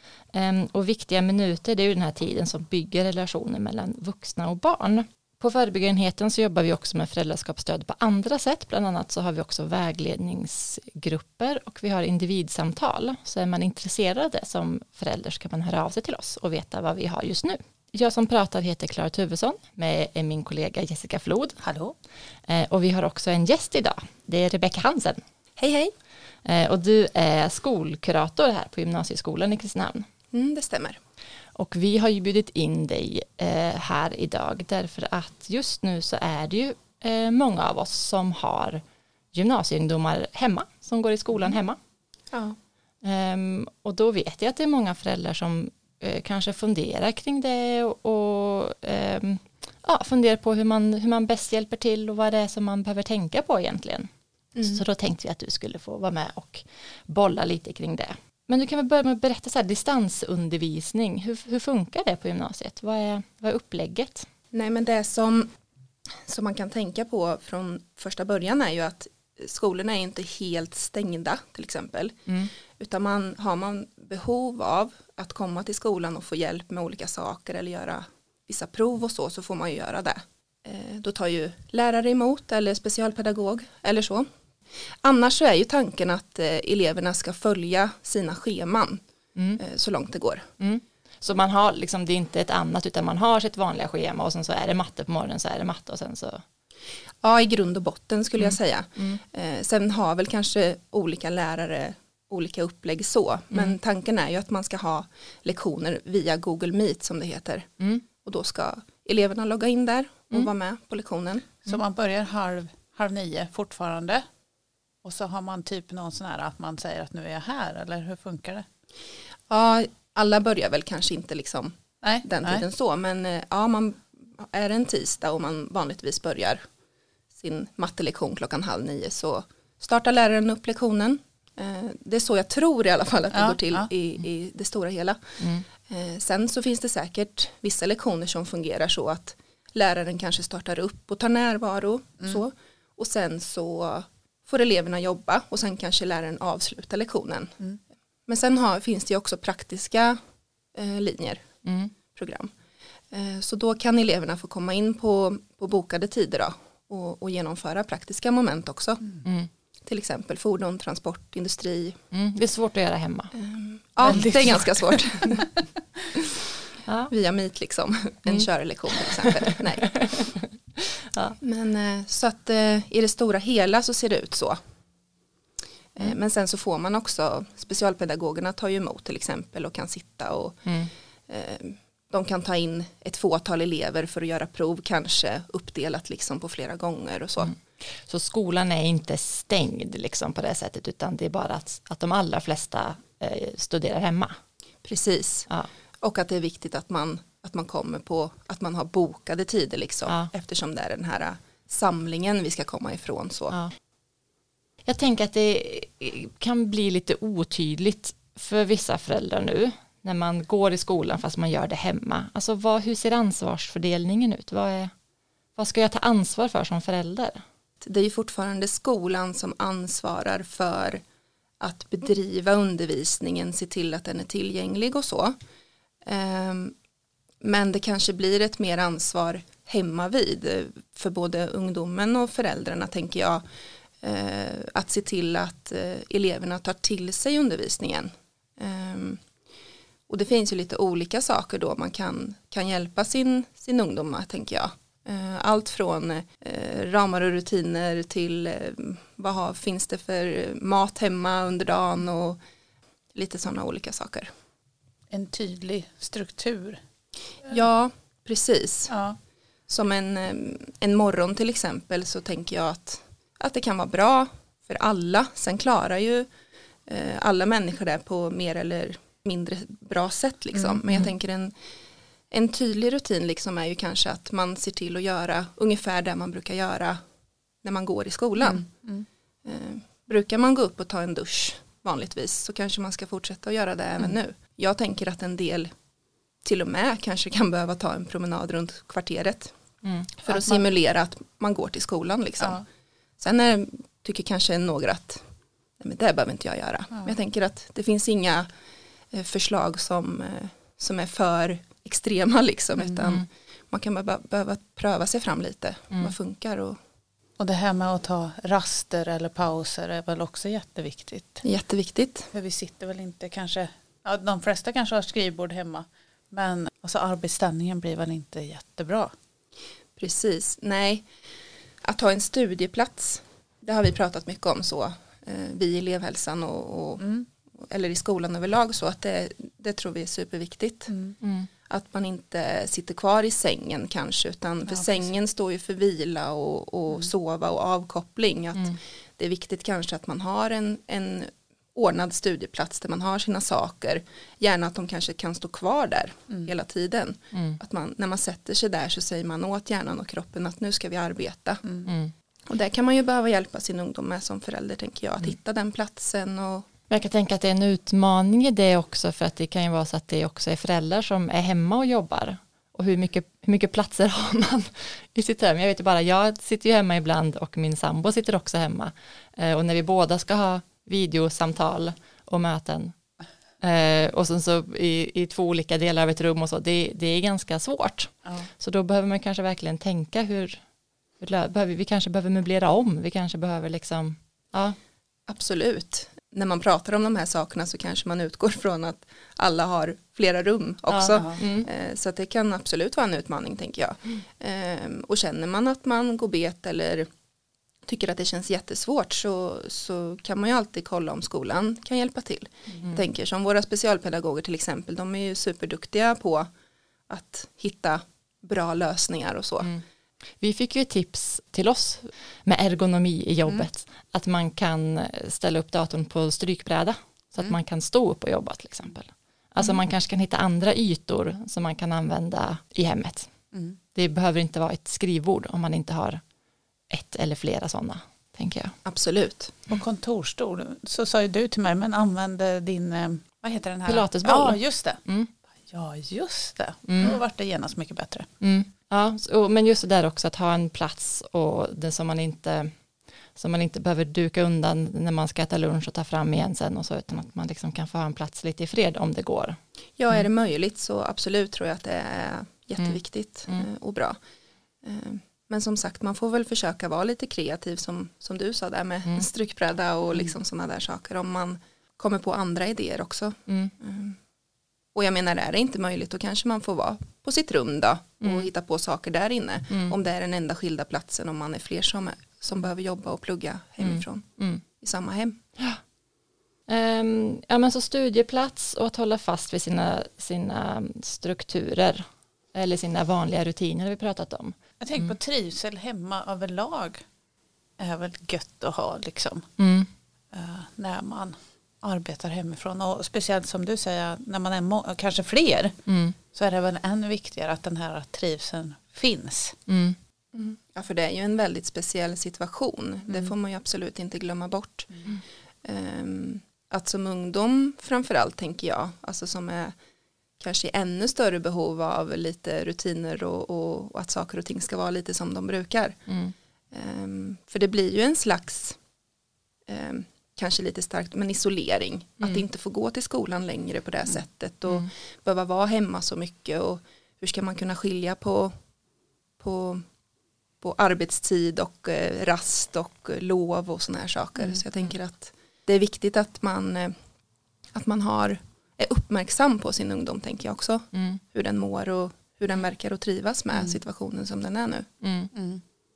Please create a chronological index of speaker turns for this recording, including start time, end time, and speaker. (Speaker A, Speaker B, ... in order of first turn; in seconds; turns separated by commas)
Speaker A: 0.3-21.6, Speaker B: 21.6-22.0, Speaker A: 22.5-25.2, Speaker C: 25.6-25.9, Speaker A: 26.4-30.1, Speaker C: 30.3-31.0, Speaker A: 31.6-38.8, Speaker A: 39.3-41.8, Speaker C: 42.3-42.6, Speaker A: 43.0-54.1, Speaker C: 54.6-54.8, Speaker A: 54.6-64.3, Speaker C: 64.5-65.5, Speaker C: 66.3-72.2, Speaker C: 72.7-84.3, Speaker C: 85.0-89.0, Speaker C: 89.6-90.5, Speaker A: 90.6-96.4, Speaker C: 97.2-111.5, Speaker A: 98.4-99.2, Speaker A: 103.5-103.8, Speaker B: 111.7-114.2, Speaker B: 115.0-118.7, Speaker C: 119.5-126.7, Speaker B: 122.0-122.6, Speaker C: 127.4-147.6, Speaker B: 133.3-133.9, Speaker A: 135.4-135.7, Speaker C: 148.3-150.2, Speaker C: 150.7-151.5, Speaker A: 151.7-151.9, Speaker C: 152.1-152.5, Speaker C: 153.1-159.0, Speaker A: 159.2-159.5, Speaker C: 159.9-162.0, Speaker A: 162.1-163.3, Speaker C: 163.3-165.5, Speaker B: 164.0-165.5, Speaker A: 166.9-167.1, Speaker C: 167.1-170.1, Speaker A: 168.3-171.4, Speaker C: 171.4-174.6, Speaker C: 175.9-180.6, Speaker C: 181.3-187.5, Speaker A: 187.4-194.4, Speaker C: 194.8-195.5, Speaker C: 196.0-203.6, Speaker A: 204.9-214.9, Speaker A: 215.6-217.4, Speaker C: 217.8-221.0, Speaker C: 221.6-225.4, Speaker C: 226.1-226.8, Speaker C: 227.4-233.4, Speaker C: 234.0-239.2, Speaker C: 240.1-252.4, Speaker C: 253.2-254.3, Speaker B: 255.1-256.8, Speaker C: 257.5-258.9, Speaker B: 258.9-259.2, Speaker C: 259.7-266.3, Speaker C: 266.9-271.6, Speaker C: 272.3-277.0, Speaker C: 277.6-278.7, Speaker B: 278.4-279.1, Speaker C: 279.4-285.7, Speaker C: 286.4-289.5, Speaker A: 289.8-290.2, Speaker C: 290.2-292.6, Speaker C: 293.2-295.2, Speaker C: 295.8-298.5, Speaker C: 299.1-306.8, Speaker B: 307.4-311.4, Speaker C: 311.4-312.3, Speaker B: 312.3-319.1, Speaker C: 320.0-321.1, Speaker C: 321.8-330.9, Speaker B: 327.0-327.2, Speaker B: 330.9-331.2, Speaker A: 331.2-331.5, Speaker C: 331.7-351.6, Speaker B: 334.7-335.1, Speaker A: 347.3-347.6, Speaker B: 351.6-351.9, Speaker A: 351.9-352.1, Speaker C: 352.5-356.7, Speaker A: 356.9-372.9, Speaker A: 373.6-380.6, Speaker A: 381.2-384.8, Speaker C: 385.3-397.1, Speaker A: 390.9-391.7, Speaker C: 397.9-406.5, Speaker C: 407.1-409.7, Speaker A: 410.4-423.3, Speaker B: 423.5-423.8, Speaker A: 423.9-426.2, Speaker A: 426.9-428.8, Speaker C: 428.9-429.6, Speaker B: 429.7-435.0, Speaker A: 433.9-435.3, Speaker B: 435.7-438.3, Speaker A: 436.9-437.2, Speaker A: 438.4-442.7, Speaker A: 443.4-449.6, Speaker C: 450.0-454.2, Speaker C: 454.8-464.2, Speaker A: 463.5-463.7, Speaker C: 464.9-475.4, Speaker A: 468.2-468.5, Speaker A: 473.8-474.6, Speaker A: 476.7-485.1, Speaker B: 484.8-487.0, Speaker B: 487.8-489.5, Speaker A: 489.6-489.9, Speaker B: 490.3-495.8, Speaker A: 495.9-496.2, Speaker B: 496.3-499.6, Speaker A: 499.7-500.0, Speaker C: 500.3-505.0, Speaker C: 505.6-509.8, Speaker C: 510.4-516.0, Speaker A: 516.1-516.3, Speaker C: 516.7-518.8, Speaker C: 519.7-528.5, Speaker C: 529.4-529.8, Speaker C: 530.6-536.9, Speaker C: 537.7-544.9, Speaker A: 540.9-541.2, Speaker A: 545.0-545.3, Speaker B: 545.3-545.6